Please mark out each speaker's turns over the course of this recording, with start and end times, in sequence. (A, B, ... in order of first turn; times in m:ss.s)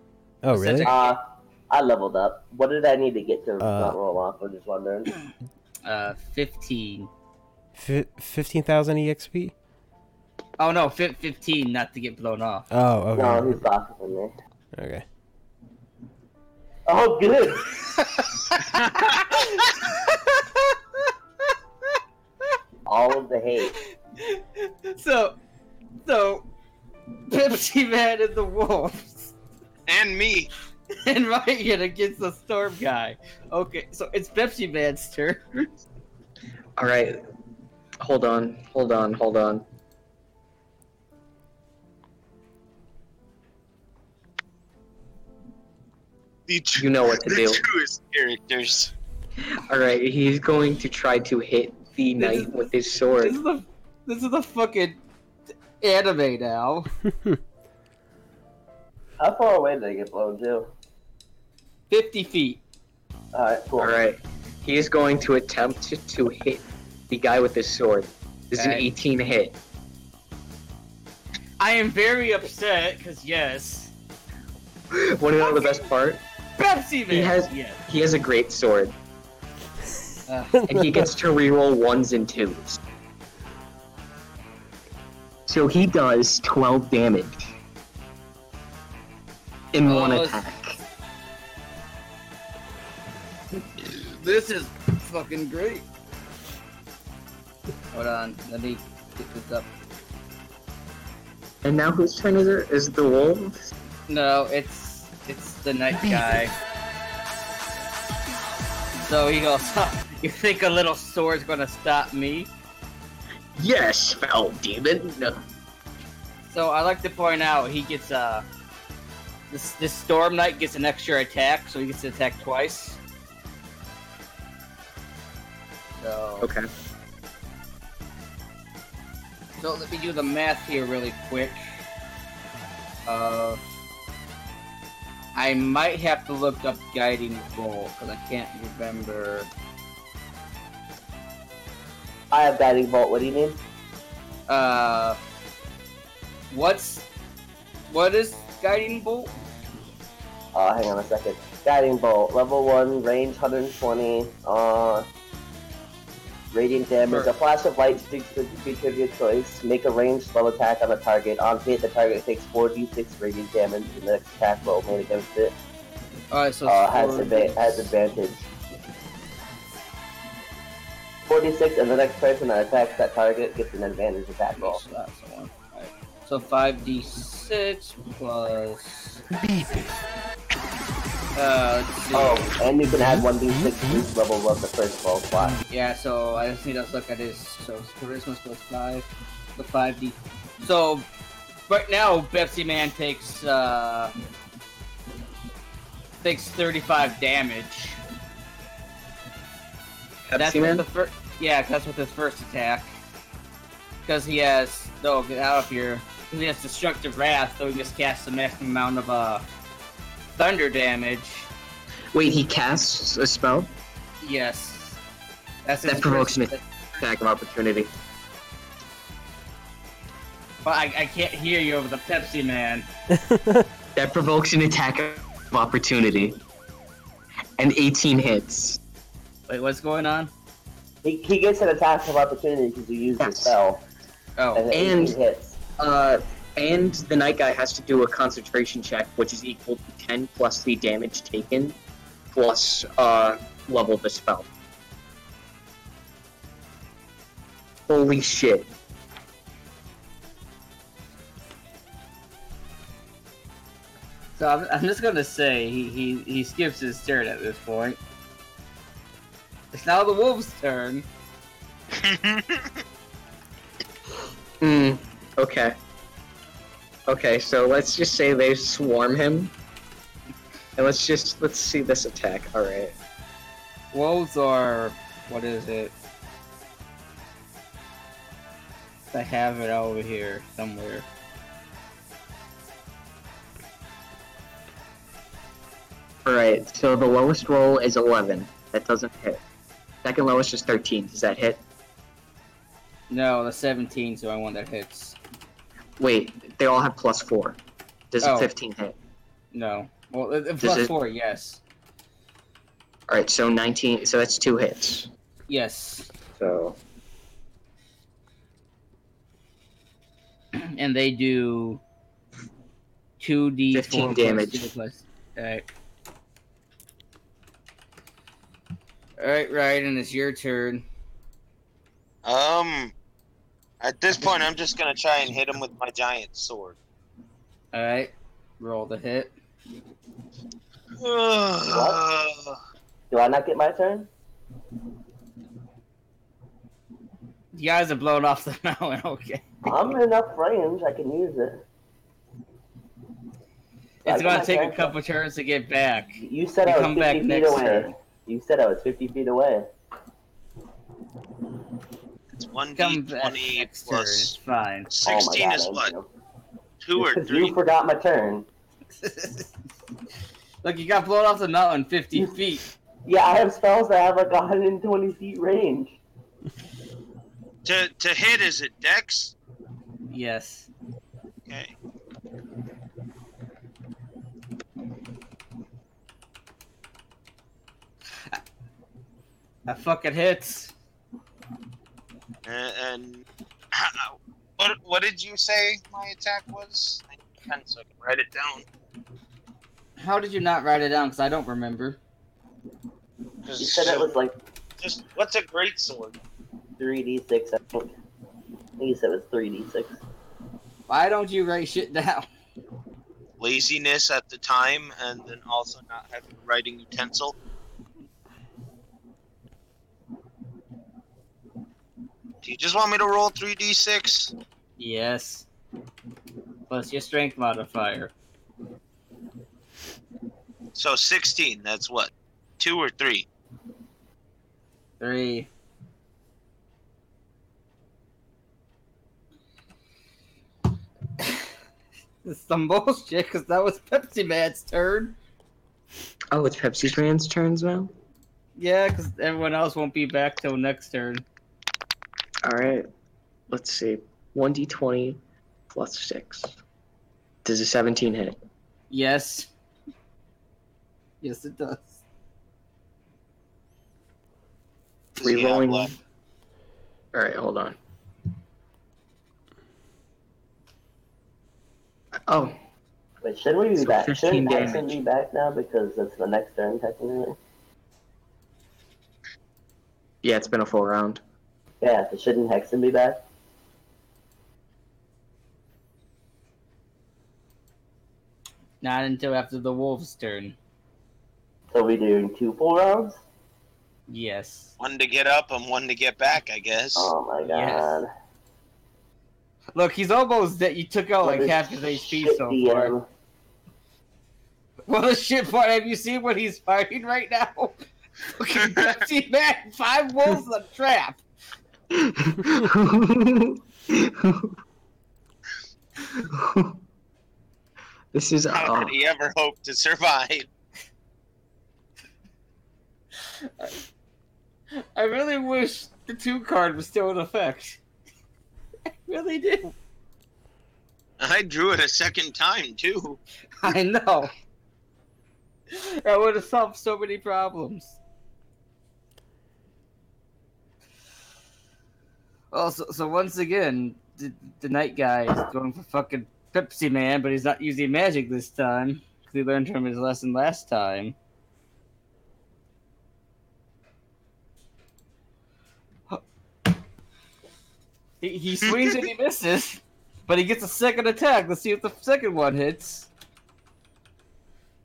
0:00.4-0:00.9 A
0:00.5-0:01.2 B
0:00.8-0:05.1 C
0:03.6-0:04.0 A
0:05.8-0:07.1 B
0:07.8-0:09.5 A
0:10.6-0:12.7 B
0:12.7-0:13.6 A
0:13.2-0:14.3 C
0:14.8-0:15.0 A
0:16.9-0:17.8 C
0:18.2-0:21.1 B
0:22.9-0:23.8 C
0:24.2-0:25.4 B
0:26.0-0:26.5 B
0:27.3-0:29.4 B
0:29.9-0:30.5 D
0:31.0-0:35.7 B
0:36.8-0:37.2 E
0:38.0-0:39.6 E
0:46.5-0:48.9 D
0:46.8-0:47.6 E
0:49.7-0:53.4 E
0:52.2-0:55.0 B
0:55.8-0:56.9 B
0:59.2-1:00.7 C
1:01.9-1:02.6 B
1:03.3-1:04.0 C
1:03.8-1:09.6 E
1:08.5-1:08.9 B
1:11.6-1:13.9 B
1:14.9-1:16.2 E
1:15.4-1:15.8 B
1:16.6-1:17.8 B
1:17.1-1:19.0 E
1:20.3-1:20.7 B
1:20.7-1:22.8 E
1:25.5-1:27.5 E
1:29.7-1:30.8 E
1:29.8-1:30.4 B
1:33.8-1:35.8 B
1:37.9-1:39.7 B
1:41.6-1:43.7 E
1:44.1-1:46.5 B
1:49.0-1:52.5 B
1:53.6-1:55.4 E
1:56.5-1:58.5 B
1:59.5-2:03.0 B
2:06.0-2:06.5 B
2:06.4-2:06.7 E
2:09.6-2:11.8 B
2:13.1-2:13.6 B
2:15.4-2:19.5 B
2:22.3-2:23.6 C
2:24.5-2:25.2 B
2:26.5-2:27.1 B
2:27.9-2:29.3 B
2:30.5-2:35.1 C
2:36.5-2:45.5 C
2:46.3-2:47.9 B
2:46.7-2:48.4 C
2:51.3-2:54.8 C
2:54.6-2:59.2 B
3:01.4-3:02.5 B
3:02.6-3:05.6 C
3:05.7-3:11.1 B
3:11.7-3:14.1 B
3:16.2-3:18.0 B
3:20.3-3:20.8 E
3:20.4-3:22.9 B
3:24.0-3:29.4 B
3:30.4-3:31.5 B
3:32.1-3:33.7 E
3:34.2-3:35.0 B
3:35.6-3:36.6 B
3:35.8-3:37.9 E
3:40.6-3:42.9 B
3:43.1-3:43.7 A
3:44.0-3:46.4 E
3:47.6-3:48.8 E
3:49.5-3:50.3 B
3:51.0-3:53.8 C
3:53.2-3:53.6 E
3:54.4-3:54.6 B
3:54.6-3:55.6 C
3:54.7-3:55.2 E
3:55.8-4:01.8 E
4:02.3-4:04.5 E
4:07.9-4:08.7 E
4:14.4-4:18.0 B
4:19.7-4:21.1 B
4:22.0-4:22.7 D
4:24.6-4:25.8 E
4:27.1-4:29.5 E
4:30.8-4:33.0 E
4:33.9-4:35.9 B
4:39.1-4:41.1 B
4:46.2-4:49.4 E
4:50.0-4:51.6 E
4:53.1-4:55.2 B
4:56.0-4:57.6 E
4:58.1-4:59.0 E
4:58.2-4:58.5 B
4:59.5-5:01.6 B
5:00.6-5:00.9 E
5:03.1-5:05.1 E
5:05.5-5:06.1 B
5:06.4-5:06.8 E
5:10.6-5:11.8 B
5:13.2-5:15.6 B
5:13.7-5:14.7 E
5:19.2-5:20.8 B
5:22.2-5:22.9 D
5:23.8-5:26.8 D
5:27.7-5:29.3 B
5:31.0-5:32.6 D
5:31.7-5:32.0 C
5:33.1-5:34.1 C
5:37.5-5:39.5 B
5:39.6-5:41.6 C
5:44.0-5:48.0 B
5:44.1-5:44.9 C
5:46.2-5:49.7 C
5:52.3-5:54.4 D
5:52.8-5:54.9 B
5:54.9-5:55.9 D
5:55.0-5:56.1 C
5:56.8-5:57.6 D
5:57.0-5:58.5 C
5:59.0-5:59.5 B
6:00.6-6:02.6 B
6:03.0-6:06.0 C
6:07.6-6:09.3 D
6:10.1-6:10.7 B
6:11.5-6:11.8 D
6:19.7-6:20.7 B
6:22.4-6:28.6 D
6:30.0-6:32.0 B
6:33.4-6:34.1 D
6:33.6-6:34.3 C
6:34.8-6:36.2 D
6:36.8-6:37.9 C
6:38.8-6:40.0 C
6:40.9-6:42.3 B
6:43.4-6:47.4 D
6:52.4-6:54.3 D
6:54.8-6:55.5 B
6:56.7-6:58.1 B
7:00.8-7:03.3 D
7:05.0-7:05.5 B
7:11.2-7:11.5 B
7:12.2-7:15.2 B
7:16.3-7:17.9 E
7:18.6-7:21.2 B
7:22.4-7:22.9 E
7:23.5-7:26.6 E
7:27.4-7:28.4 E
7:28.9-7:29.5 B
7:31.2-7:32.0 B
7:35.2-7:36.0 E
7:35.2-7:35.9 D
7:37.1-7:37.8 E
7:42.3-7:42.6 E
7:43.2-7:47.4 C
7:43.8-7:45.0 E
7:50.2-7:51.2 E
7:51.8-7:53.2 C
7:58.8-8:00.6 B
8:01.7-8:03.2 C
8:04.1-8:04.7 B
8:04.8-8:07.1 D
8:07.0-8:08.1 C
8:07.4-8:08.0 B
8:09.8-8:12.9 B
8:11.2-8:13.0 C
8:14.9-8:17.8 B
8:18.4-8:21.2 B
8:21.9-8:24.5 E
8:26.1-8:26.8 E
8:28.1-8:29.0 E
8:28.5-8:30.5 D
8:34.8-8:37.8 B
8:39.1-8:39.7 B
8:41.2-8:43.2 D
8:43.6-8:44.3 B
8:45.7-8:48.0 B
8:52.5-9:01.2 B
9:08.2-9:13.1 B